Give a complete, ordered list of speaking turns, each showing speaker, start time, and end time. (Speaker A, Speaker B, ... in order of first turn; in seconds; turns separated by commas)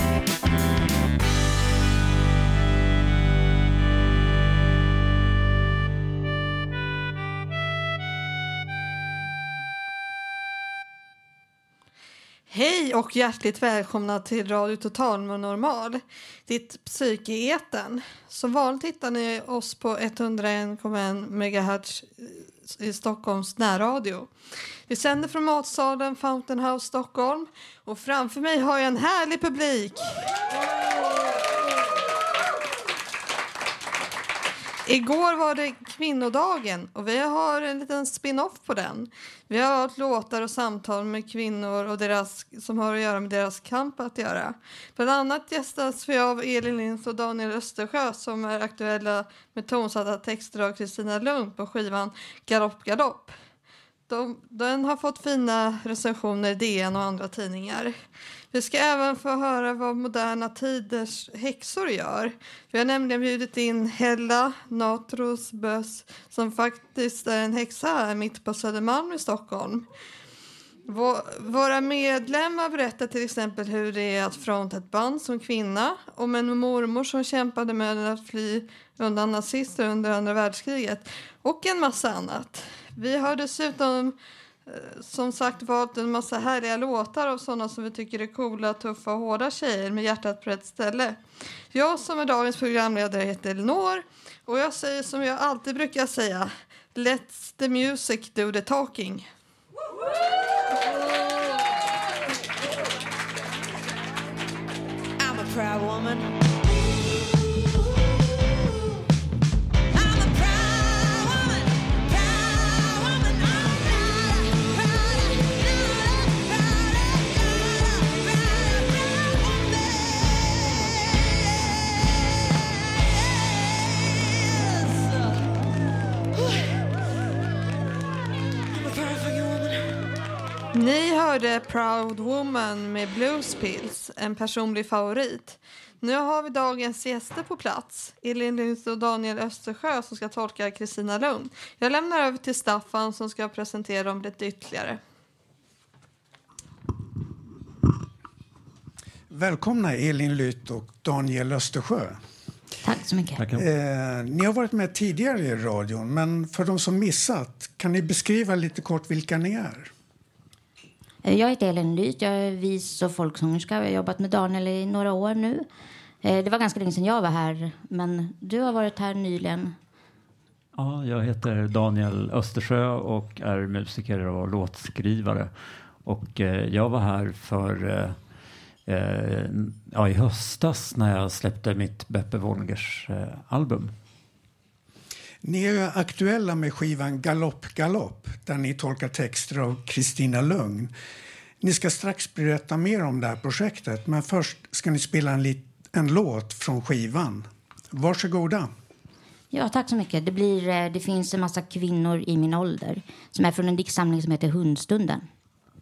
Speaker A: 12.5-24.3, Speaker A: 24.9-30.2, Speaker A: 34.9-53.3, Speaker A: 54.1-57.9, Speaker A: 58.5-69.9, Speaker A: 70.9-84.2, Speaker A: 84.7-91.2, Speaker A: 91.7-99.3, Speaker B: 105.2-106.3, Speaker B: 109.9-120.1, Speaker B: 128.7-129.9, Speaker A: 130.7-145.0, Speaker C: 149.3-152.2, Speaker D: 152.8-153.4, Speaker E: 153.3-153.6, Speaker C: 153.5-159.9, Speaker D: 161.2-165.7, Speaker D: 166.2-169.8, Speaker E: 170.8-175.5, Speaker E: 176.0-178.2, Speaker E: 178.8-183.9, Speaker C: 185.4-190.9, Speaker C: 191.6-198.7, Speaker D: 199.5-205.2